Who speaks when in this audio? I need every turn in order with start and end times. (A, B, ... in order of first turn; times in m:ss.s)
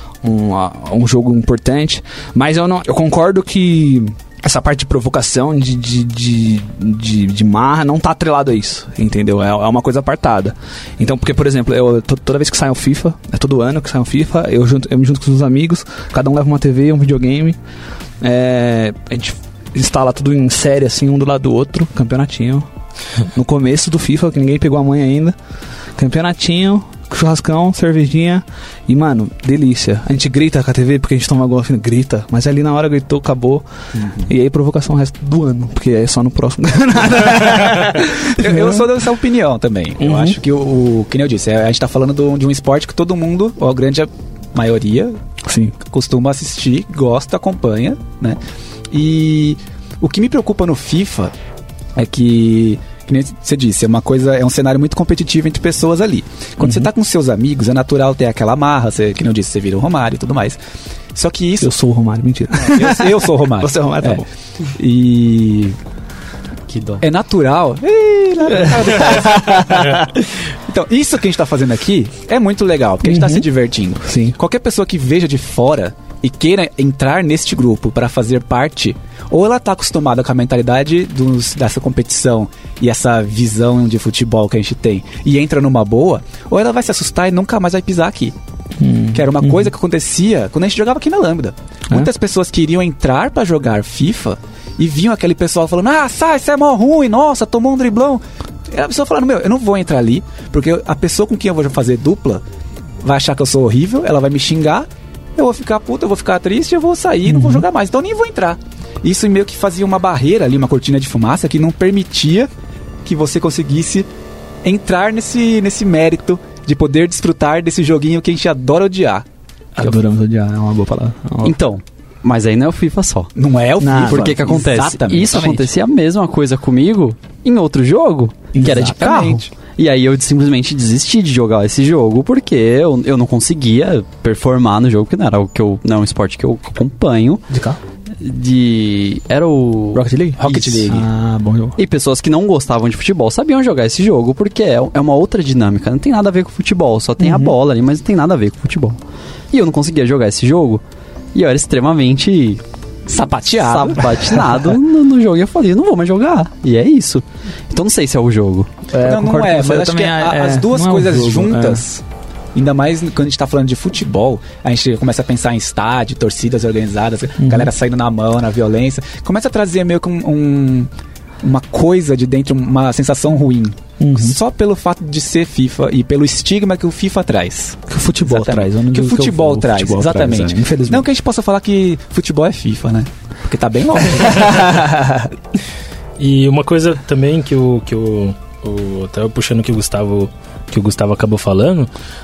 0:00.2-0:17.6 A
0:18.2-0:22.6 A
0:23.2-0:25.3 A
0:26.0-0:33.6 A
0:34.0-0:34.3 B
0:34.2-0:39.0 A
0:38.1-0:45.2 B
0:40.0-0:40.4 A
0:45.4-0:45.7 A
0:45.8-0:48.4 B
0:48.9-0:51.3 B
0:51.9-1:00.6 B
0:56.6-0:56.9 A
1:01.1-1:01.7 B
1:01.6-1:04.3 A
1:02.6-1:05.8 B
1:06.7-1:07.0 C
1:07.0-1:28.3 B
1:08.5-1:10.2 A
1:13.0-1:13.5 A
1:14.0-1:14.4 A
1:28.8-1:29.7 A
1:29.1-1:42.4 B
1:43.0-1:52.5 B
1:47.2-1:47.6 A
1:53.0-1:54.1 B
1:54.6-1:59.2 B
1:59.8-2:01.6 A
2:01.4-2:03.3 C
2:03.4-2:05.6 B
2:03.8-2:04.6 A
2:03.9-2:17.4 C
2:05.3-2:05.6 A
2:08.5-2:09.4 A
2:08.6-2:09.5 B
2:17.5-2:17.8 A
2:18.2-2:21.0 C
2:19.9-2:21.0 B
2:20.9-2:21.8 A
2:21.8-2:29.0 C
2:27.2-2:27.5 A
2:29.5-2:30.8 C
2:31.3-2:32.6 C
2:33.1-2:34.4 B
2:33.6-2:38.7 C
2:38.9-2:41.8 A
2:39.0-2:50.9 B
2:47.4-2:47.7 A
2:51.4-3:04.9 B
2:54.0-2:54.4 A
2:57.9-3:01.0 A
3:04.3-3:05.3 A
3:06.2-3:11.9 D